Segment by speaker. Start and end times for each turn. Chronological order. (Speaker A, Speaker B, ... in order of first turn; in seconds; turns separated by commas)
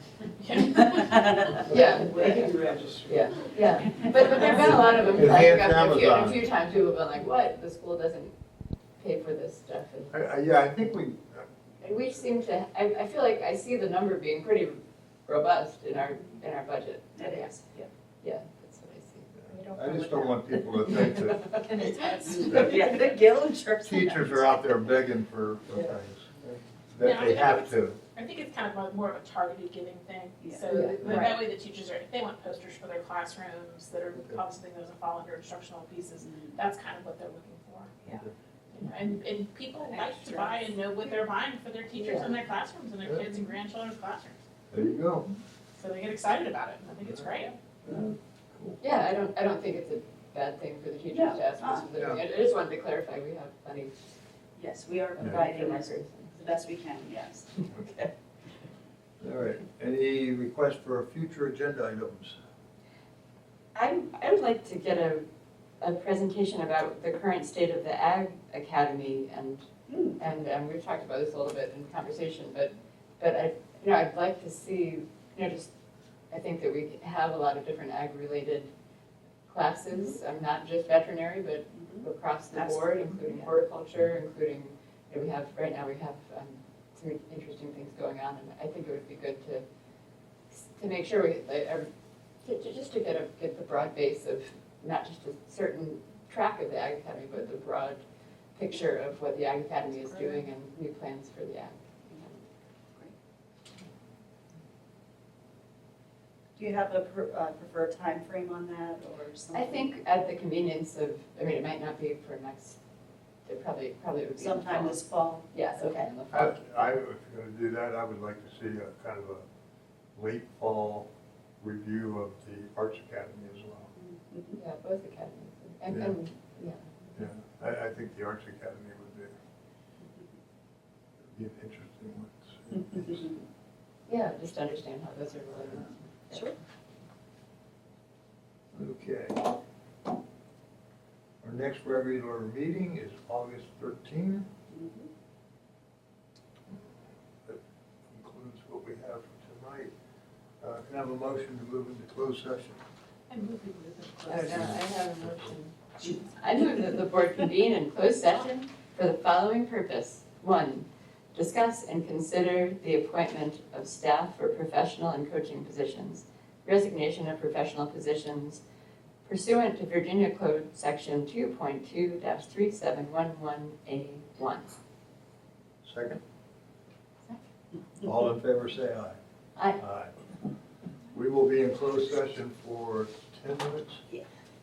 Speaker A: 0.4-1.5, Speaker B: 1.5-8.3, Speaker C: 1.6-3.2, Speaker C: 4.5-6.4, Speaker B: 9.0-10.2, Speaker C: 10.1-11.5, Speaker B: 11.8-17.5, Speaker D: 17.2-17.9, Speaker B: 18.2-19.3, Speaker C: 19.4-21.5, Speaker D: 19.5-20.3, Speaker B: 21.4-22.3, Speaker D: 21.4-24.7, Speaker A: 22.5-22.8, Speaker C: 23.8-28.0, Speaker A: 27.0-44.4, Speaker D: 30.4-31.4, Speaker B: 30.7-31.2, Speaker C: 31.0-31.3, Speaker D: 36.2-36.6, Speaker C: 38.0-38.3, Speaker D: 39.8-40.7, Speaker D: 42.0-42.3, Speaker C: 44.7-45.3, Speaker A: 45.8-47.5, Speaker C: 47.8-48.8, Speaker B: 48.8-53.9, Speaker D: 51.1-51.9, Speaker C: 51.9-52.2, Speaker D: 54.5-57.7, Speaker B: 55.1-56.4, Speaker C: 55.2-55.5, Speaker C: 59.2-62.4, Speaker B: 63.7-65.2, Speaker B: 65.8-75.7, Speaker D: 69.9-70.2, Speaker B: 76.3-78.7, Speaker B: 79.5-89.6, Speaker D: 81.8-83.6, Speaker B: 90.5-91.9, Speaker B: 92.4-98.0, Speaker B: 98.5-102.4, Speaker D: 100.1-100.4, Speaker D: 106.5-109.9, Speaker B: 109.5-112.8, Speaker B: 113.4-116.8, Speaker D: 114.4-116.0, Speaker C: 116.3-119.4, Speaker C: 120.1-121.1, Speaker C: 121.6-123.9, Speaker D: 124.0-124.6, Speaker B: 124.6-126.9, Speaker C: 125.9-126.2, Speaker C: 127.1-129.4, Speaker C: 131.2-133.4, Speaker D: 132.9-133.3, Speaker B: 134.1-136.5, Speaker D: 136.3-136.6, Speaker C: 138.7-139.5, Speaker C: 141.4-144.5, Speaker D: 144.7-145.1, Speaker C: 147.4-149.9, Speaker C: 150.6-152.8, Speaker A: 153.3-154.7, Speaker B: 154.3-168.6, Speaker C: 154.5-155.5, Speaker B: 169.2-174.8, Speaker C: 175.8-176.2, Speaker C: 178.0-179.2, Speaker C: 179.8-180.1, Speaker C: 181.1-184.0